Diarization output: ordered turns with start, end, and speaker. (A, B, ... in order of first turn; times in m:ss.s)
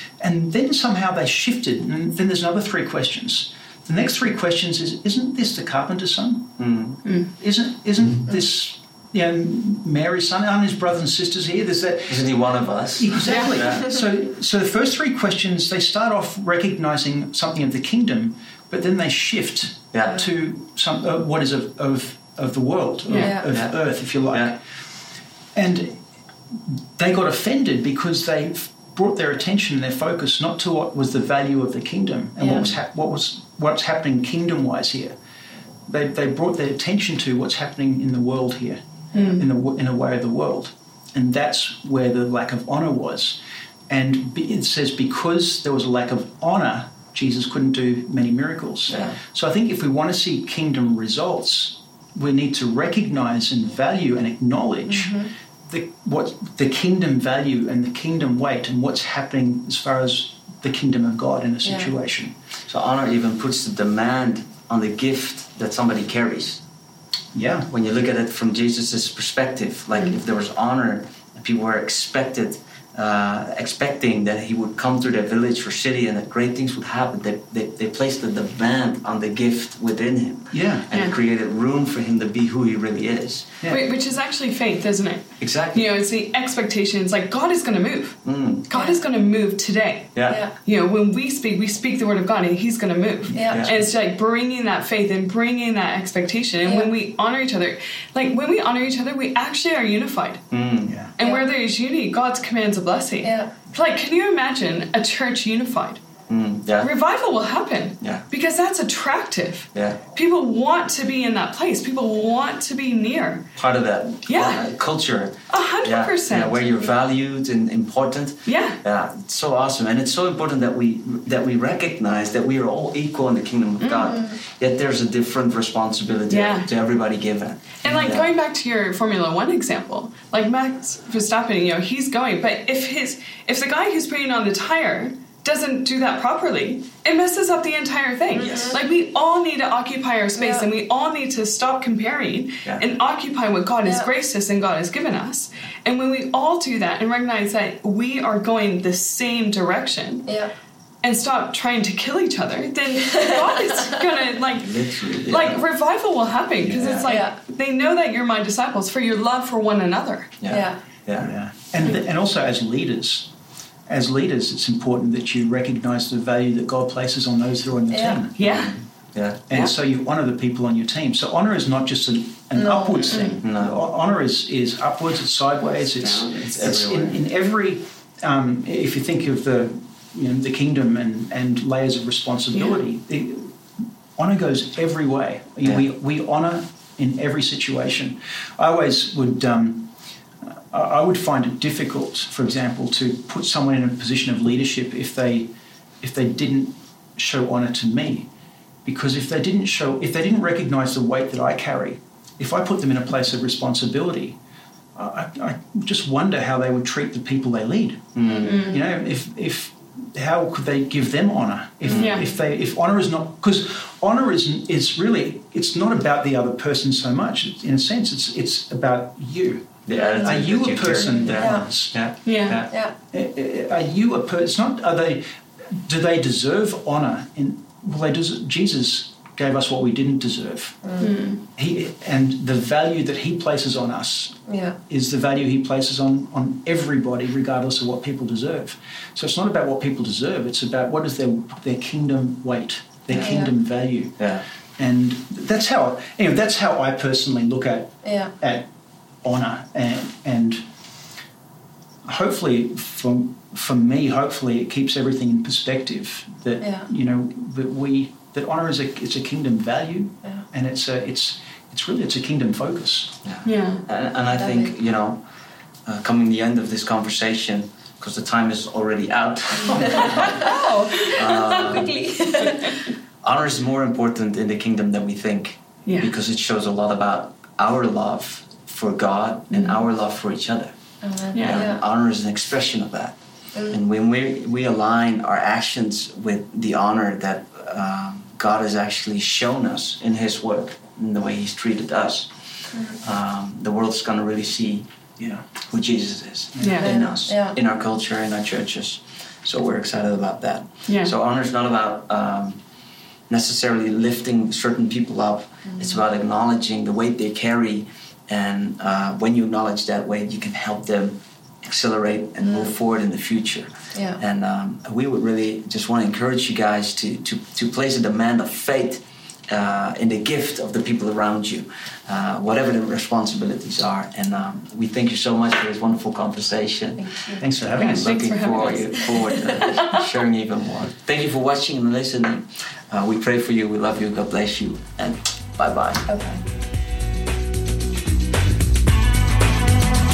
0:00.2-0:06.6 A
0:06.6-0:07.0 B
0:07.0-0:07.3 C
0:07.4-0:24.6 A
0:12.1-0:13.9 B
0:13.2-0:13.6 C
0:19.9-0:20.2 B
0:23.1-0:23.3 C
0:23.1-0:23.5 D
0:23.5-0:24.6 B
0:25.6-0:26.0 A
0:27.0-0:35.2 A
0:32.4-0:32.7 D
0:35.9-0:55.2 A
0:39.1-0:39.4 C
0:48.9-0:49.2 B
0:54.9-0:55.3 D
0:55.7-1:02.3 A
1:01.6-1:01.9 D
1:02.7-1:06.6 B
1:07.3-1:07.7 A
1:07.7-1:23.5 B
1:20.5-1:20.9 A
1:23.7-1:40.4 C
1:25.4-1:25.9 B
1:28.2-1:28.7 B
1:30.1-1:30.4 B
1:30.3-1:30.5 D
1:33.3-1:33.6 D
1:33.4-1:33.9 A
1:33.5-1:33.8 B
1:36.6-1:36.9 D
1:40.5-1:41.0 B
1:40.9-1:41.1 A
1:41.2-1:46.0 C
1:43.2-1:43.5 D
1:46.3-1:46.9 B
1:46.8-1:53.4 C
1:48.0-1:48.2 B
1:49.7-1:50.0 B
1:53.6-2:08.3 B
1:54.3-1:54.6 C
1:55.5-1:56.9 C
1:58.5-1:58.8 C
2:03.8-2:04.2 C
2:06.3-2:06.7 C
2:07.8-2:30.3 C
2:18.3-2:18.8 D
2:18.4-2:18.8 B
2:20.4-2:20.7 D
2:23.8-2:24.1 D
2:30.3-2:30.5 D
2:31.0-2:34.7 C
2:34.5-2:35.6 B
2:35.3-2:40.3 C
2:36.6-2:37.2 B
2:37.0-2:37.4 D
2:40.4-2:41.3 B
2:40.5-2:40.8 D
2:41.2-2:43.3 A
2:43.9-2:48.4 A
2:47.9-2:48.2 D
2:48.4-2:48.8 C
2:48.4-2:49.7 B
2:49.5-3:03.6 A
2:52.5-2:53.4 D
2:53.4-2:53.8 B
2:56.0-2:56.3 C
2:56.4-2:57.3 B
3:02.6-3:02.8 C
3:04.2-3:09.9 A
3:05.6-3:05.9 B
3:10.4-3:18.3 A
3:18.8-3:24.4 A
3:25.0-3:28.1 A
3:28.2-3:28.6 B
3:28.4-3:28.8 C
3:28.6-3:42.0 A
3:31.9-3:32.2 B
3:31.9-3:32.3 C
3:39.8-3:42.7 B
3:40.0-3:40.2 D
3:41.2-3:41.7 D
3:42.2-3:42.6 C
3:42.7-3:43.0 D
3:43.1-3:50.9 A
3:50.8-3:51.2 D
3:51.0-3:51.4 C
3:51.6-4:04.2 A
3:54.5-3:54.8 D
4:03.1-4:03.4 B
4:03.1-4:03.5 D
4:04.2-4:04.4 B
4:04.8-4:08.7 A
4:08.0-4:08.3 D
4:09.2-4:10.6 A
4:12.1-4:23.2 A
4:16.6-4:16.9 D
4:23.2-4:25.2 B
4:23.4-4:23.8 C
4:24.3-4:24.7 D
4:25.9-4:32.0 B
4:29.7-4:30.4 D
4:30.2-4:31.4 C
4:31.3-4:32.8 D
4:33.2-4:40.7 B
4:41.0-4:41.8 D
4:41.3-4:41.7 C
4:41.4-4:43.2 B
4:43.7-4:52.3 B
4:52.7-4:53.0 D
4:53.0-4:54.9 B
4:55.2-4:55.4 A
4:55.7-5:02.6 B
4:56.6-4:56.8 A
4:56.6-4:56.9 C
4:56.8-4:57.6 D
5:03.3-5:27.2 B
5:05.7-5:06.0 D
5:12.4-5:12.7 D
5:13.9-5:14.2 D
5:27.0-5:27.4 D
5:27.4-5:28.2 A
5:27.8-5:30.0 C
5:27.8-5:36.1 B
5:36.1-5:36.4 D